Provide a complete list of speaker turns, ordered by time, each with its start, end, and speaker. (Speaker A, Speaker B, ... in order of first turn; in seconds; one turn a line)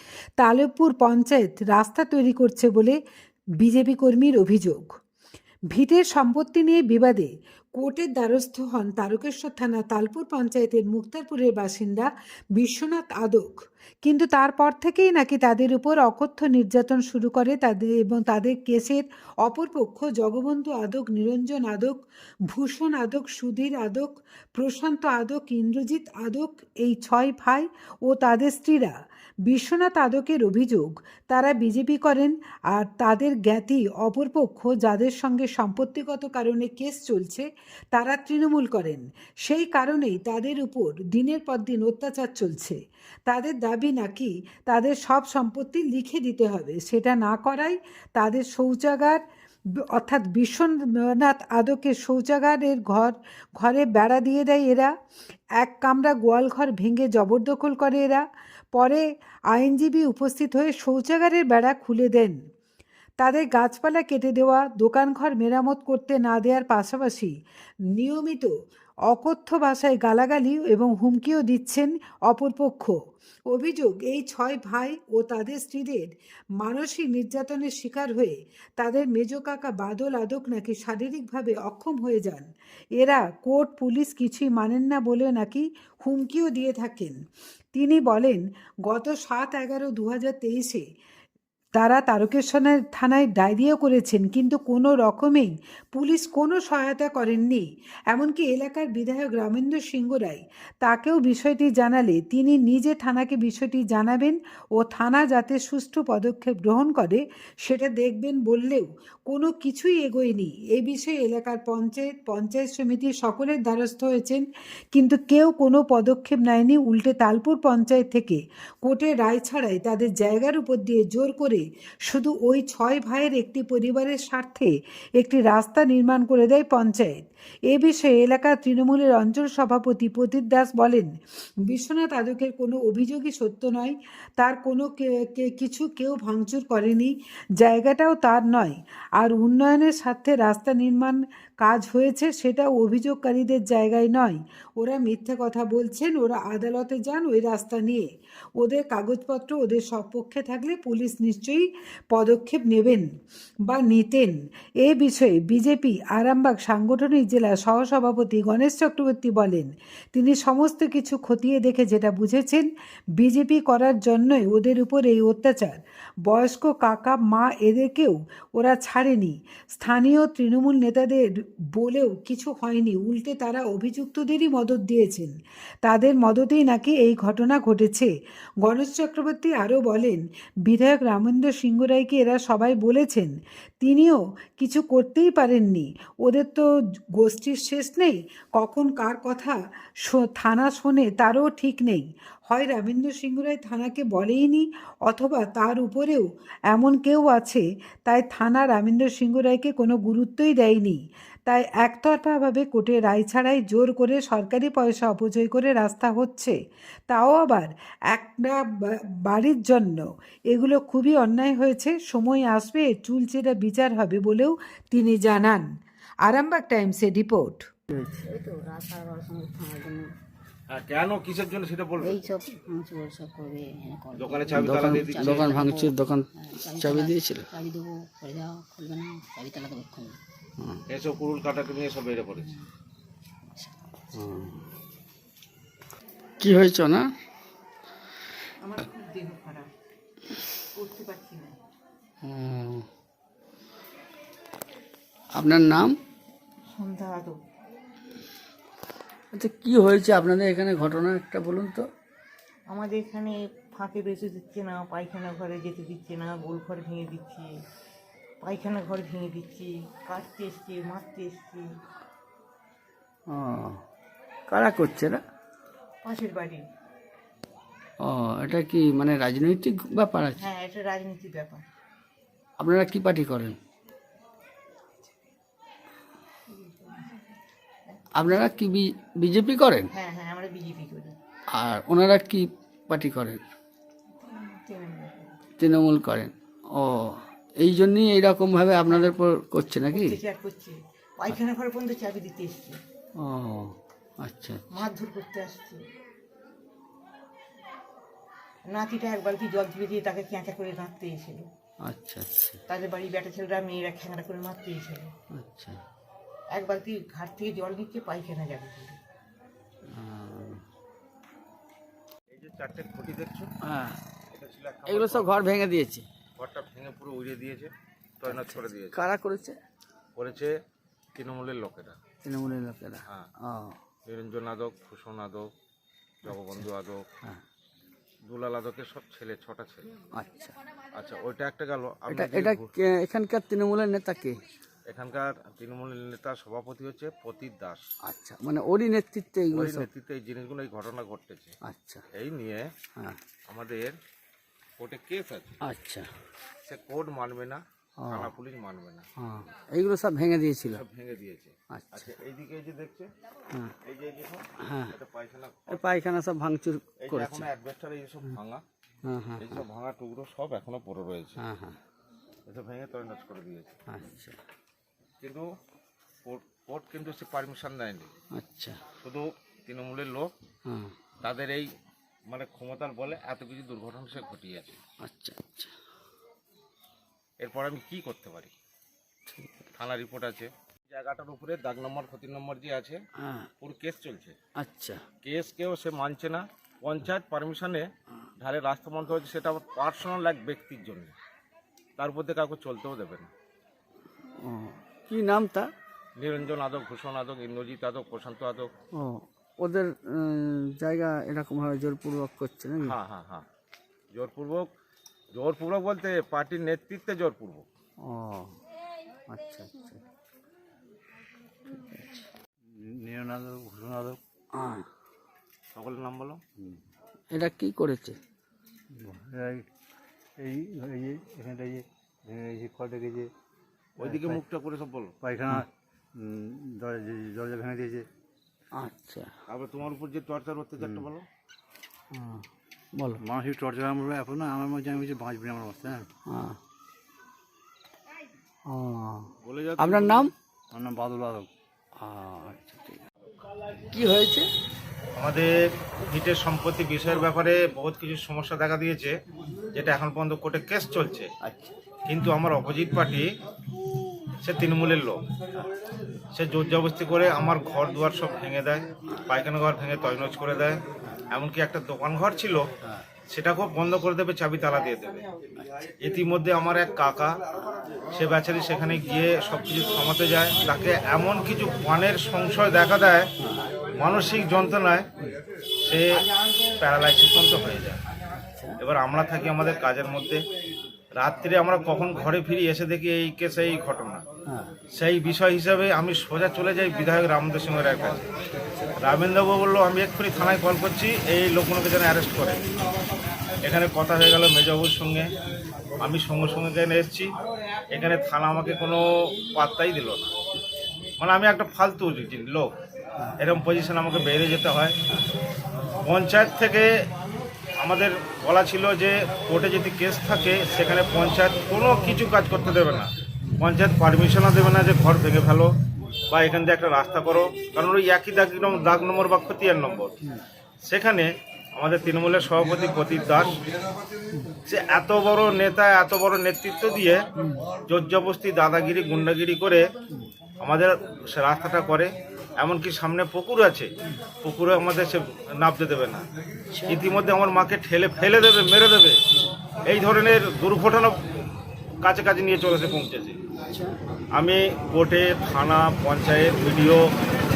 Speaker A: 0.4-3.0
Speaker A: 3.6-4.9
Speaker A: 5.7-28.9
Speaker A: 29.5-49.2
Speaker A: 49.9-54.9
Speaker A: 55.6-62.4
Speaker A: 63.2-67.3
Speaker A: 67.9-68.5
Speaker A: 69.1-73.0
Speaker A: 73.5-87.2
Speaker A: 87.7-90.8
Speaker A: 91.8-131.1
Speaker A: 131.7-153.1
Speaker A: 153.7-178.1
Speaker A: 178.6-186.7
Speaker A: 187.2-206.6
Speaker A: 207.1-215.7
Speaker A: 216.2-217.7
Speaker B: 217.9-218.2
Speaker C: 218.2-220.1
Speaker D: 220.7-222.3
Speaker C: 222.0-230.2
Speaker D: 224.2-225.7
Speaker B: 224.5-227.5
Speaker D: 230.9-232.5
Speaker B: 234.2-234.7
Speaker B: 236.4-237.1
Speaker E: 238.6-239.7
Speaker E: 240.8-241.5
Speaker B: 242.2-242.8
Speaker B: 245.3-246.0
Speaker E: 246.7-247.3
Speaker B: 249.3-251.9
Speaker E: 252.7-257.5
Speaker E: 258.4-261.7
Speaker B: 263.3-263.8
Speaker B: 264.5-265.2
Speaker E: 266.0-266.6
Speaker B: 268.0-270.4
Speaker E: 270.4-271.6
Speaker B: 272.6-273.6
Speaker E: 276.5-277.2
Speaker B: 278.2-279.9
Speaker E: 279.9-281.1
Speaker B: 281.5-283.4
Speaker E: 284.2-285.3
Speaker B: 285.6-290.2
Speaker E: 288.9-289.1
Speaker E: 289.9-292.8
Speaker B: 293.2-294.6
Speaker E: 294.7-295.8
Speaker E: 298.7-301.5
Speaker B: 301.8-302.6
Speaker E: 302.7-305.1
Speaker B: 305.3-305.8
Speaker E: 306.5-308.9
Speaker B: 309.9-310.6
Speaker D: 312.3-313.5
Speaker B: 313.6-314.0
Speaker D: 314.3-315.4
Speaker B: 314.9-316.1
Speaker D: 316.4-319.0
Speaker B: 318.2-319.6
Speaker D: 320.1-320.5
Speaker D: 321.1-322.0
Speaker B: 322.2-323.8
Speaker D: 324.1-325.4
Speaker D: 326.2-327.0
Speaker B: 326.3-326.6
Speaker D: 328.3-329.9
Speaker B: 330.1-330.6
Speaker D: 331.0-332.7
Speaker B: 332.1-334.4
Speaker D: 334.9-337.8
Speaker B: 338.1-339.9
Speaker D: 339.5-341.5
Speaker B: 341.6-342.0
Speaker D: 342.1-342.6
Speaker D: 343.5-343.9
Speaker D: 344.8-345.6
Speaker B: 345.6-346.1
Speaker D: 346.6-349.0
Speaker B: 348.0-348.3
Speaker B: 349.2-350.8
Speaker D: 350.6-353.1
Speaker B: 351.7-352.1
Speaker D: 353.8-355.8
Speaker B: 354.6-354.9
Speaker B: 355.7-357.5
Speaker D: 357.0-358.6
Speaker B: 359.0-359.6
Speaker D: 359.4-361.4
Speaker B: 361.4-361.8
Speaker D: 362.4-363.7
Speaker B: 363.9-364.4
Speaker D: 366.2-368.1
Speaker B: 368.3-368.8
Speaker D: 369.0-370.3
Speaker B: 370.6-370.9
Speaker D: 371.2-371.7
Speaker D: 372.3-374.8
Speaker B: 375.0-375.7
Speaker D: 377.4-378.5
Speaker B: 379.3-379.6
Speaker D: 379.8-383.0
Speaker B: 383.2-383.5
Speaker D: 383.6-384.4
Speaker B: 384.6-385.0
Speaker D: 385.2-387.8
Speaker D: 388.4-391.1
Speaker D: 392.0-393.3
Speaker B: 394.4-395.7
Speaker D: 396.2-398.7
Speaker B: 399.0-402.9
Speaker D: 402.8-403.4
Speaker D: 404.1-404.6
Speaker D: 405.3-407.6
Speaker B: 408.0-408.5
Speaker B: 409.3-410.0
Speaker B: 411.7-412.2
Speaker F: 412.7-414.2
Speaker B: 414.5-414.9
Speaker D: 415.7-416.4
Speaker B: 417.3-418.2
Speaker F: 418.9-419.6
Speaker F: 420.4-423.3
Speaker F: 424.0-424.4
Speaker D: 424.0-425.1
Speaker F: 425.2-428.1
Speaker B: 428.7-429.3
Speaker D: 429.5-431.2
Speaker F: 430.8-431.0
Speaker B: 432.1-432.4
Speaker F: 433.2-436.1
Speaker B: 436.3-436.6
Speaker B: 438.7-440.3
Speaker D: 439.4-440.3
Speaker F: 440.7-441.5
Speaker B: 442.0-443.0
Speaker B: 443.9-444.5
Speaker D: 445.1-445.5
Speaker D: 446.1-449.1
Speaker D: 449.7-451.3
Speaker B: 451.4-451.7
Speaker D: 452.1-453.3
Speaker D: 454.4-455.2
Speaker D: 456.3-460.8
Speaker D: 461.3-462.6
Speaker D: 463.3-465.2
Speaker B: 465.6-465.9
Speaker D: 466.0-467.3
Speaker D: 468.1-473.3
Speaker B: 473.4-473.6
Speaker D: 473.9-475.1
Speaker D: 476.8-478.0
Speaker D: 478.8-480.4
Speaker D: 481.2-484.2
Speaker B: 484.5-484.7
Speaker D: 484.9-488.3
Speaker B: 488.7-489.0
Speaker D: 489.0-492.6
Speaker D: 493.6-495.3
Speaker D: 496.0-497.3
Speaker D: 497.9-500.3
Speaker D: 501.2-502.7
Speaker D: 503.4-505.0
Speaker D: 506.0-506.9
Speaker D: 507.8-515.7
Speaker D: 516.3-520.1
Speaker D: 520.9-523.6
Speaker D: 524.6-527.2
Speaker D: 527.9-529.9
Speaker D: 530.6-533.9
Speaker D: 534.4-536.2
Speaker B: 536.7-537.1
Speaker D: 536.9-539.2
Speaker D: 539.9-541.2
Speaker D: 542.0-543.4
Speaker B: 543.7-544.0
Speaker D: 544.4-547.0